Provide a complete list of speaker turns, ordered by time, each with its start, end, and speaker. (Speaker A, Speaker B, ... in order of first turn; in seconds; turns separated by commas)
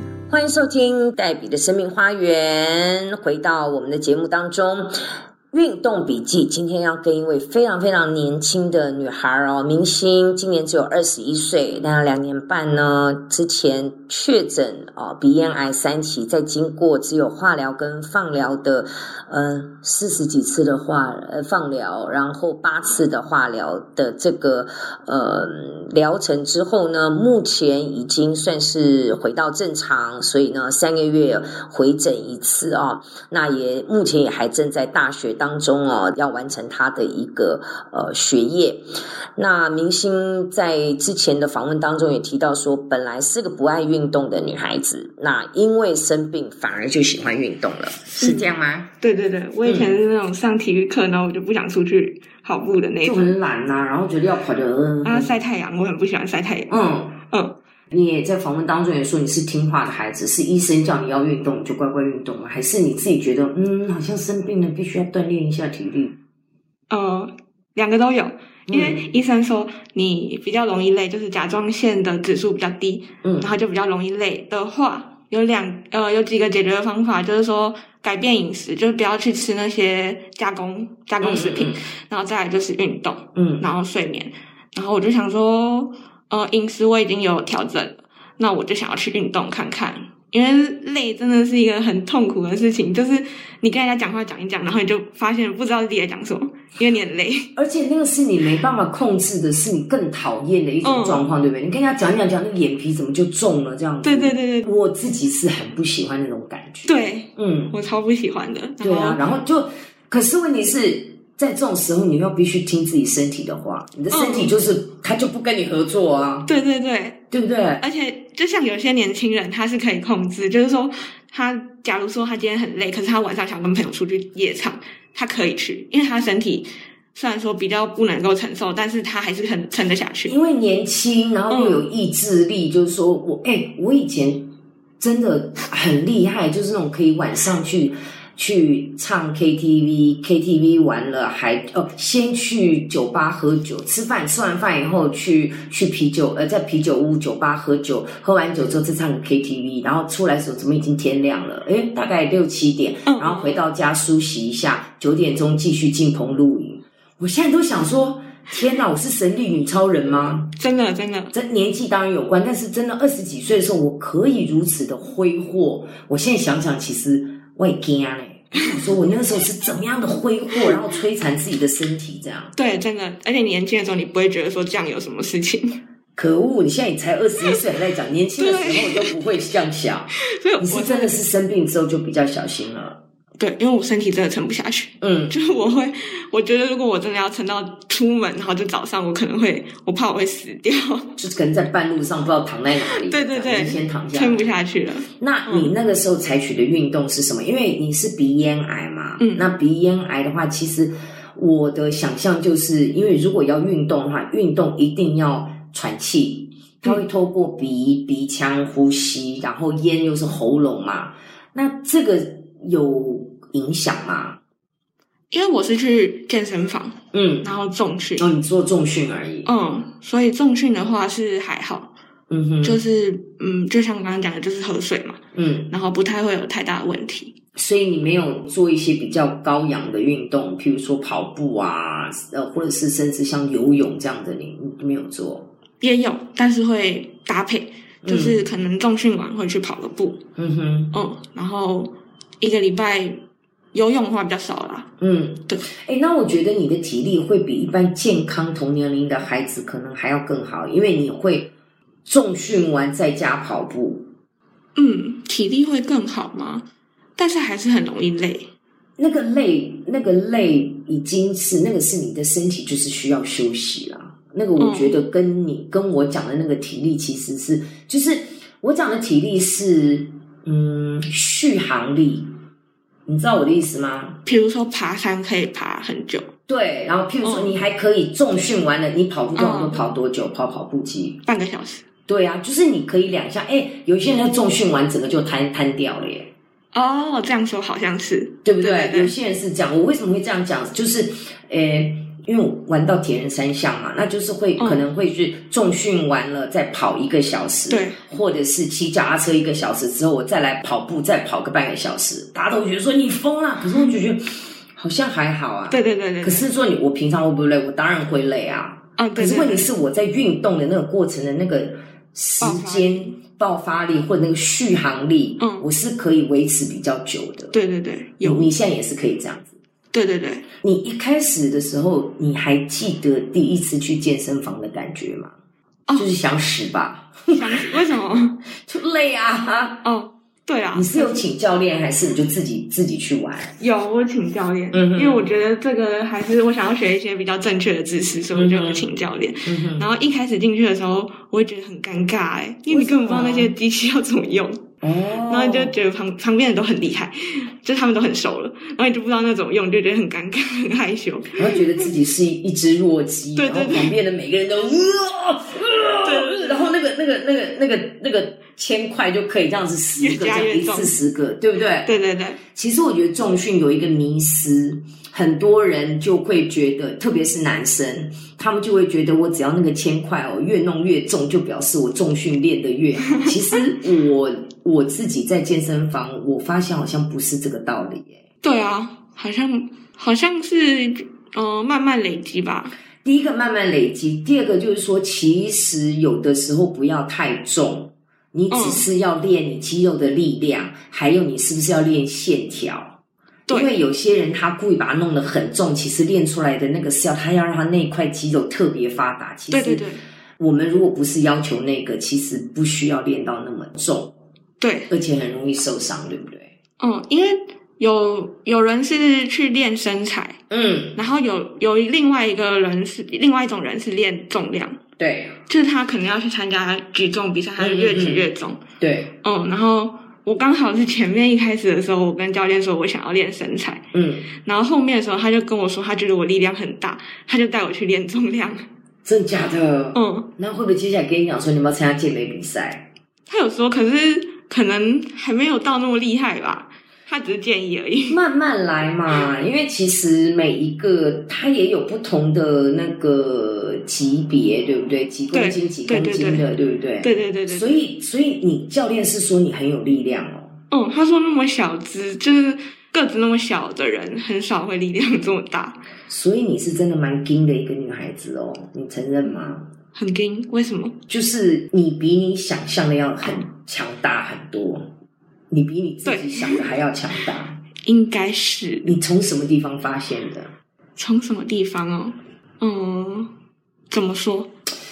Speaker A: 0.3-4.9, Speaker A: 5.5-38.8, Speaker A: 39.4-48.9, Speaker B: 48.2-53.3, Speaker A: 49.6-49.9, Speaker A: 53.0-55.4, Speaker B: 55.0-56.7, Speaker A: 56.7-57.2, Speaker B: 57.3-57.5, Speaker A: 57.9-66.1, Speaker B: 66.9-97.5, Speaker A: 68.7-69.0, Speaker A: 73.2-73.5, Speaker A: 81.2-81.8, Speaker A: 83.3-83.7, Speaker A: 97.5-107.8, Speaker B: 100.8-101.2, Speaker B: 104.0-104.7, Speaker B: 106.8-109.3, Speaker A: 108.8-116.5, Speaker B: 114.1-114.5, Speaker B: 116.4-117.2, Speaker A: 117.3-117.8, Speaker B: 117.8-130.4, Speaker A: 130.2-160.6, Speaker B: 131.5-131.8, Speaker B: 153.1-153.6, Speaker B: 160.6-161.3, Speaker A: 161.3-172.5, Speaker B: 172.5-175.8, Speaker A: 176.2-183.0, Speaker B: 178.4-179.2, Speaker B: 180.3-181.1, Speaker B: 183.4-191.1, Speaker A: 185.0-185.4, Speaker A: 191.2-194.4, Speaker B: 192.9-195.7, Speaker A: 195.2-214.4, Speaker B: 199.2-199.4, Speaker B: 215.3-218.2, Speaker A: 217.1-217.5, Speaker A: 218.2-219.5, Speaker B: 219.4-221.9, Speaker A: 222.3-222.8, Speaker B: 222.6-225.2, Speaker A: 225.3-225.7, Speaker B: 225.7-227.3, Speaker A: 227.6-235.5, Speaker B: 235.8-240.2, Speaker A: 238.0-238.4, Speaker A: 240.4-241.0, Speaker B: 240.9-243.2, Speaker B: 243.7-244.9, Speaker A: 245.0-251.5, Speaker A: 252.1-254.1, Speaker B: 254.8-256.6, Speaker B: 257.2-258.5, Speaker A: 259.0-272.3, Speaker B: 264.6-265.0, Speaker A: 273.1-274.2, Speaker B: 274.2-276.3, Speaker A: 276.5-281.2, Speaker B: 277.2-277.6, Speaker B: 279.4-279.8, Speaker B: 281.2-281.8, Speaker A: 282.1-286.3, Speaker B: 286.7-289.1, Speaker A: 288.4-317.5, Speaker B: 294.6-294.8, Speaker B: 297.7-298.0, Speaker B: 305.7-306.5, Speaker B: 309.0-309.7, Speaker B: 312.4-313.1, Speaker B: 315.4-315.7, Speaker B: 317.5-318.5, Speaker A: 318.2-319.5, Speaker B: 319.9-320.4, Speaker A: 320.6-325.3, Speaker A: 325.9-327.7, Speaker B: 327.3-328.4, Speaker A: 328.6-329.8, Speaker B: 329.8-331.2, Speaker A: 330.7-333.6, Speaker B: 333.6-344.6, Speaker A: 334.7-335.3, Speaker A: 338.3-338.9, Speaker A: 339.4-339.9, Speaker A: 342.7-343.5, Speaker A: 344.8-345.7, Speaker B: 345.2-351.8, Speaker A: 351.3-361.9, Speaker B: 353.4-353.9, Speaker B: 356.0-356.6, Speaker B: 360.0-360.9, Speaker B: 361.8-362.4, Speaker A: 362.5-378.2, Speaker B: 378.4-382.8, Speaker A: 383.0-392.9, Speaker B: 388.5-388.8, Speaker B: 393.5-393.8, Speaker A: 393.5-404.1, Speaker B: 399.5-400.0, Speaker B: 404.6-404.9, Speaker A: 404.9-406.5, Speaker B: 406.8-410.4, Speaker A: 410.5-411.0, Speaker B: 410.9-414.8, Speaker A: 415.0-415.4, Speaker B: 415.5-418.6, Speaker A: 417.6-418.3, Speaker A: 418.8-419.1, Speaker B: 419.2-423.9, Speaker A: 423.9-424.3, Speaker B: 424.4-428.6, Speaker A: 429.0-432.9, Speaker B: 429.9-430.3, Speaker B: 433.3-438.2, Speaker A: 438.1-450.5, Speaker B: 445.3-446.5, Speaker B: 447.0-447.7, Speaker B: 450.7-455.8, Speaker A: 456.1-459.7, Speaker B: 459.9-461.0, Speaker A: 461.1-464.9, Speaker A: 465.5-467.6, Speaker B: 466.0-466.6, Speaker B: 467.8-468.9, Speaker A: 468.8-470.5, Speaker B: 471.0-473.3, Speaker B: 473.9-474.5